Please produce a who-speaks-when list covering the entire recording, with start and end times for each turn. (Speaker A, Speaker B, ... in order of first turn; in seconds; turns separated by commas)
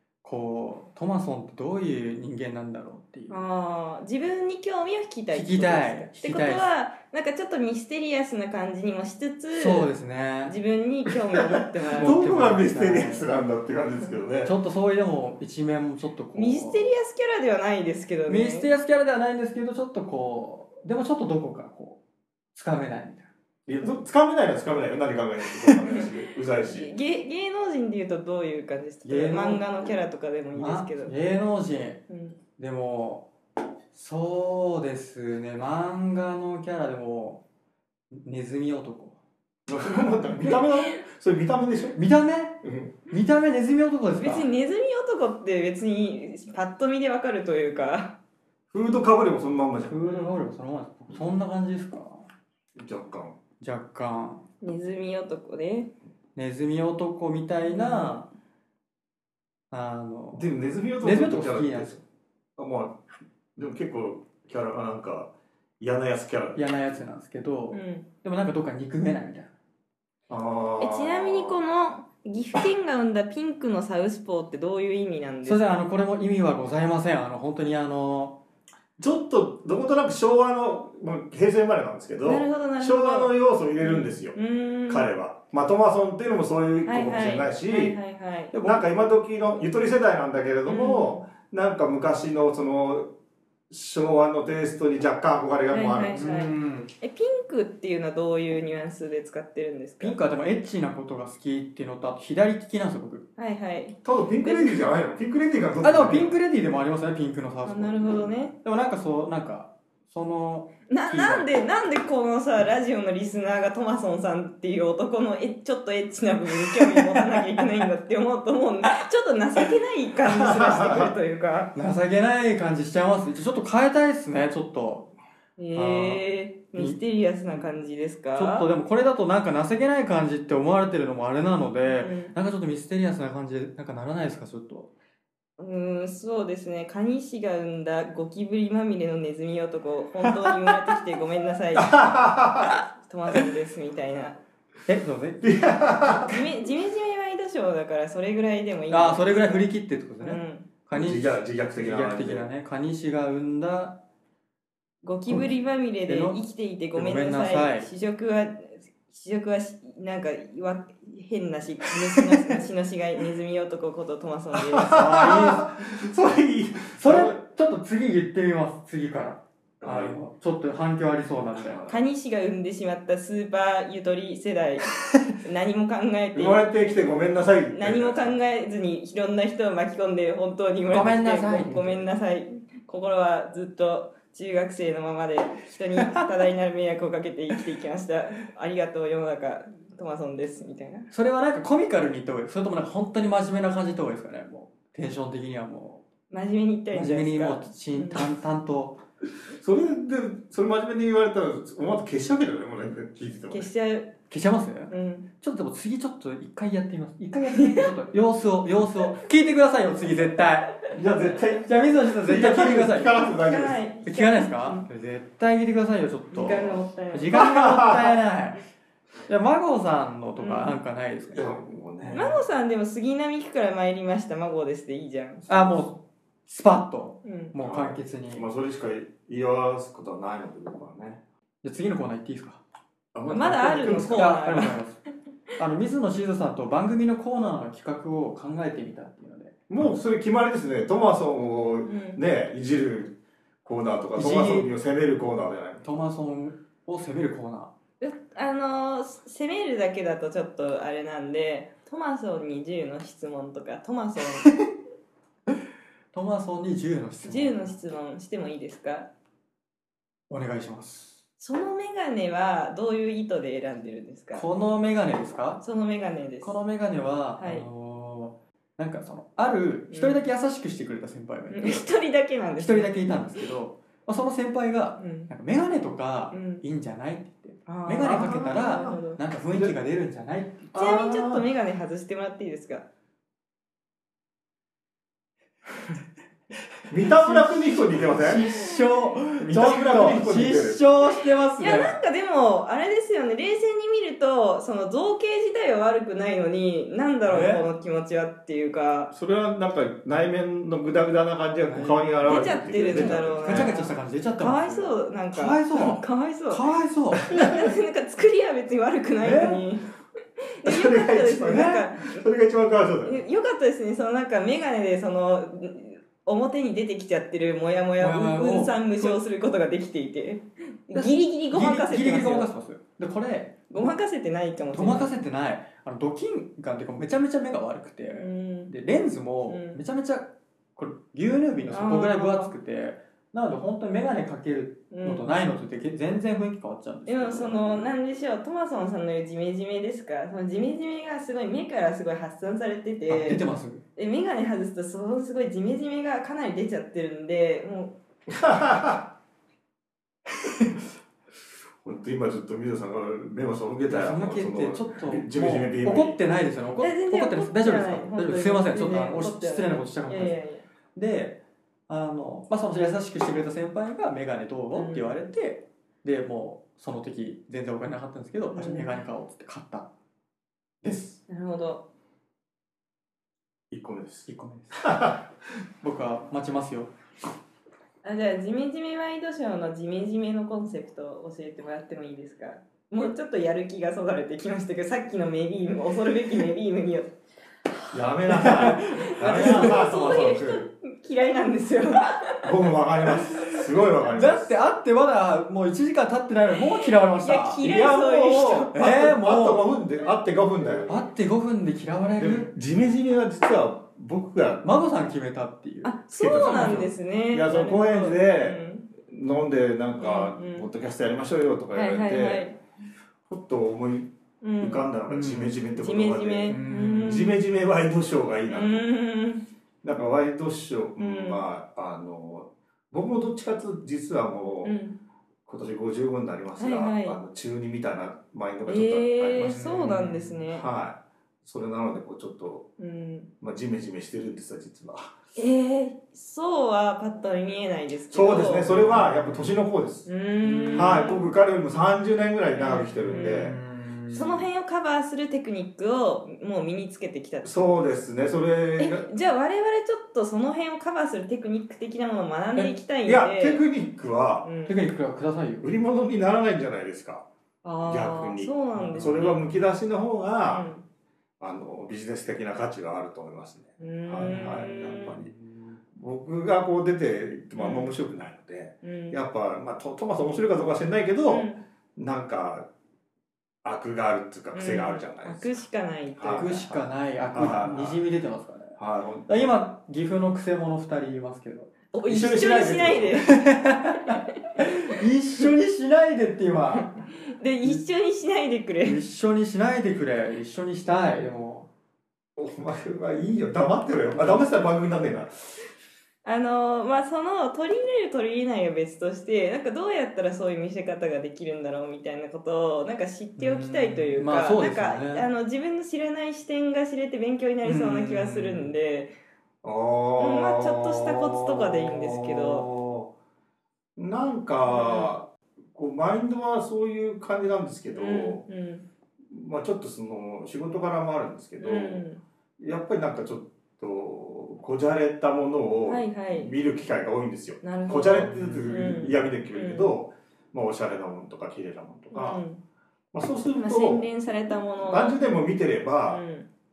Speaker A: 0.2-3.4, Speaker B: 3.3-9.9, Speaker A: 5.3-6.7, Speaker A: 9.6-10.6, Speaker B: 10.4-12.2, Speaker C: 11.9-14.5, Speaker A: 12.0-13.3, Speaker A: 14.4-16.9, Speaker B: 16.4-18.7, Speaker A: 18.3-22.0, Speaker A: 22.5-23.3, Speaker C: 23.7-26.9, Speaker B: 26.6-31.1, Speaker A: 29.1-29.6, Speaker A: 30.6-32.0, Speaker B: 32.1-32.4, Speaker A: 32.6-33.3, Speaker A: 33.9-37.4, Speaker A: 38.1-39.2, Speaker C: 39.7-42.0, Speaker A: 42.0-44.5, Speaker C: 42.6-42.9, Speaker B: 44.2-48.2, Speaker C: 48.7-50.0, Speaker A: 49.9-52.3, Speaker B: 50.0-50.3, Speaker C: 52.8-53.4, Speaker A: 53.6-54.5, Speaker B: 54.6-55.9, Speaker A: 56.4-58.3, Speaker B: 57.7-58.2, Speaker A: 59.7-62.0, Speaker C: 60.3-62.0, Speaker C: 62.6-63.0, Speaker C: 63.6-66.6, Speaker A: 66.5-69.5, Speaker B: 67.7-68.1, Speaker C: 70.3-71.6, Speaker B: 70.8-75.7, Speaker A: 75.5-78.4, Speaker C: 79.0-88.0, Speaker B: 82.2-85.1, Speaker B: 86.8-88.5, Speaker C: 88.5-93.1, Speaker B: 90.7-91.2, Speaker C: 93.7-96.3, Speaker B: 95.7-100.2, Speaker A: 96.2-96.9, Speaker A: 100.0-103.3, Speaker B: 103.4-104.9, Speaker C: 104.0-106.3, Speaker A: 105.8-111.5, Speaker B: 107.7-108.5, Speaker B: 110.9-121.7, Speaker C: 120.2-121.2, Speaker A: 121.8-125.1, Speaker B: 125.6-128.7, Speaker A: 125.7-126.2, Speaker A: 126.7-127.0, Speaker A: 128.4-134.9, Speaker B: 131.8-132.3, Speaker B: 135.6-142.1, Speaker C: 141.7-142.8, Speaker B: 143.0-144.4, Speaker A: 144.9-145.5, Speaker C: 145.4-146.4, Speaker B: 146.2-149.7, Speaker A: 148.9-154.0, Speaker B: 150.2-150.7, Speaker C: 150.9-152.5, Speaker B: 155.0-165.1, Speaker A: 156.1-156.4, Speaker A: 156.9-157.9, Speaker C: 164.5-167.4, Speaker A: 164.9-165.7, Speaker A: 167.0-171.8, Speaker C: 169.8-170.2, Speaker C: 171.5-172.0, Speaker B: 171.9-191.1, Speaker C: 176.3-178.3, Speaker A: 180.9-182.0, Speaker A: 191.1-196.1, Speaker B: 196.3-198.2, Speaker A: 196.9-199.0, Speaker C: 199.5-203.7, Speaker B: 203.5-204.2, Speaker A: 204.3-210.8, Speaker B: 204.9-205.3, Speaker B: 207.5-207.9, Speaker C: 210.9-213.8, Speaker A: 211.6-213.2, Speaker B: 213.3-214.9, Speaker A: 214.1-218.6, Speaker B: 216.3-217.4, Speaker C: 217.3-218.2, Speaker A: 219.3-222.4, Speaker B: 220.4-220.8, Speaker C: 221.3-222.4, Speaker B: 222.1-225.5, Speaker C: 225.5-225.8, Speaker A: 225.5-228.4, Speaker B: 227.2-227.5, Speaker C: 227.6-231.2, Speaker A: 231.6-232.6, Speaker C: 233.1-234.3, Speaker B: 233.3-234.8, Speaker A: 233.9-235.0, Speaker A: 235.6-239.5, Speaker C: 239.7-245.8, Speaker B: 241.8-242.2, Speaker A: 244.2-244.7, Speaker A: 245.8-247.7, Speaker B: 248.0-254.5, Speaker A: 256.1-257.7, Speaker B: 257.2-259.1, Speaker A: 260.3-261.2, Speaker B: 261.4-264.5, Speaker A: 264.4-265.6, Speaker B: 265.6-266.6, Speaker A: 266.4-271.9, Speaker B: 267.4-267.7, Speaker B: 269.9-270.2, Speaker B: 271.5-273.2, Speaker A: 272.6-281.0, Speaker B: 275.0-275.3, Speaker B: 276.3-276.6, Speaker B: 277.7-279.2, Speaker C: 278.0-279.0, Speaker C: 280.7-281.5, Speaker B: 280.8-282.9, Speaker C: 286.9-288.5, Speaker A: 287.0-291.9, Speaker C: 289.4-290.8, Speaker B: 291.6-299.1, Speaker A: 297.3-297.6, Speaker C: 299.1-303.7, Speaker A: 301.7-302.1, Speaker B: 302.2-306.6, Speaker A: 302.9-307.3, Speaker B: 307.2-309.9, Speaker C: 307.2-307.7, Speaker A: 309.2-309.7, Speaker B: 310.6-312.2, Speaker C: 310.6-313.2, Speaker B: 313.0-322.5, Speaker A: 318.0-319.2, Speaker A: 320.9-323.9, Speaker B: 323.7-325.1, Speaker A: 324.7-337.6, Speaker B: 328.1-328.7, Speaker B: 329.5-329.8, Speaker B: 331.7-332.6, Speaker B: 334.9-335.3, Speaker B: 337.1-343.4, Speaker A: 343.1-343.8, Speaker B: 344.0-347.9, Speaker C: 348.3-349.1, Speaker C: 351.8-356.2, Speaker A: 353.9-360.4, Speaker B: 356.8-360.6, Speaker A: 360.9-369.9, Speaker B: 364.7-365.3, Speaker B: 368.5-369.0, Speaker A: 370.8-371.2, Speaker B: 371.3-371.9, Speaker C: 373.7-374.3, Speaker A: 374.3-375.1, Speaker C: 374.8-375.3, Speaker A: 375.8-376.9, Speaker B: 378.0-387.1, Speaker C: 387.9-390.7, Speaker A: 388.3-389.8, Speaker B: 388.5-392.6, Speaker C: 392.4-394.6, Speaker A: 394.1-398.0, Speaker B: 397.2-398.8, Speaker C: 397.6-401.1, Speaker A: 398.7-399.6, Speaker A: 400.9-402.5, Speaker C: 402.2-404.7, Speaker A: 404.6-406.9, Speaker B: 405.8-408.9, Speaker C: 406.1-412.5, Speaker B: 410.0-410.7, Speaker B: 411.7-412.6, Speaker C: 413.3-418.9, Speaker B: 414.4-414.9, Speaker A: 415.1-415.6, Speaker B: 415.8-417.4, Speaker A: 416.5-417.3, Speaker B: 418.5-419.5, Speaker C: 419.8-424.8, Speaker B: 421.0-421.4, Speaker B: 424.6-425.0, Speaker C: 425.5-429.9, Speaker B: 426.6-427.2, Speaker B: 428.7-430.7, Speaker A: 429.4-430.4, Speaker C: 430.5-432.7, Speaker B: 432.8-433.3, Speaker C: 433.4-435.1, Speaker B: 435.4-439.0, Speaker C: 438.1-440.1, Speaker A: 438.9-439.6, Speaker B: 440.1-441.3, Speaker A: 440.4-441.1, Speaker C: 440.7-443.6, Speaker B: 442.5-443.5, Speaker A: 443.0-444.5, Speaker B: 444.1-447.8, Speaker C: 447.4-449.1, Speaker B: 448.8-453.6, Speaker C: 453.0-454.5, Speaker B: 454.4-454.8, Speaker A: 454.7-455.7, Speaker C: 455.6-457.3, Speaker B: 457.6-459.4, Speaker C: 457.8-460.7, Speaker A: 458.7-459.4, Speaker B: 460.5-460.8, Speaker C: 461.4-465.3, Speaker B: 463.8-465.2, Speaker A: 464.2-464.7, Speaker C: 465.9-472.7, Speaker B: 467.6-467.9, Speaker B: 468.8-469.2, Speaker B: 471.3-471.6, Speaker C: 473.6-475.5, Speaker B: 474.5-476.6, Speaker C: 476.2-478.0, Speaker A: 476.3-478.8, Speaker C: 478.8-479.6, Speaker A: 479.3-481.7, Speaker B: 481.9-483.4, Speaker C: 482.1-483.2, Speaker A: 483.2-486.9, Speaker B: 486.7-489.0, Speaker A: 488.8-491.7, Speaker C: 492.4-495.6, Speaker B: 496.2-509.1, Speaker A: 503.4-505.3, Speaker A: 507.6-508.7, Speaker C: 509.6-513.1, Speaker B: 510.2-512.7, Speaker C: 514.0-518.4, Speaker B: 514.7-515.1, Speaker B: 518.0-518.8, Speaker C: 519.3-522.0, Speaker B: 521.6-522.2, Speaker C: 522.6-532.4, Speaker B: 525.9-526.5, Speaker B: 527.6-529.9, Speaker A: 528.2-529.0, Speaker B: 532.1-532.6, Speaker C: 533.1-534.1, Speaker B: 533.5-535.2, Speaker C: 534.8-536.2, Speaker B: 536.1-536.5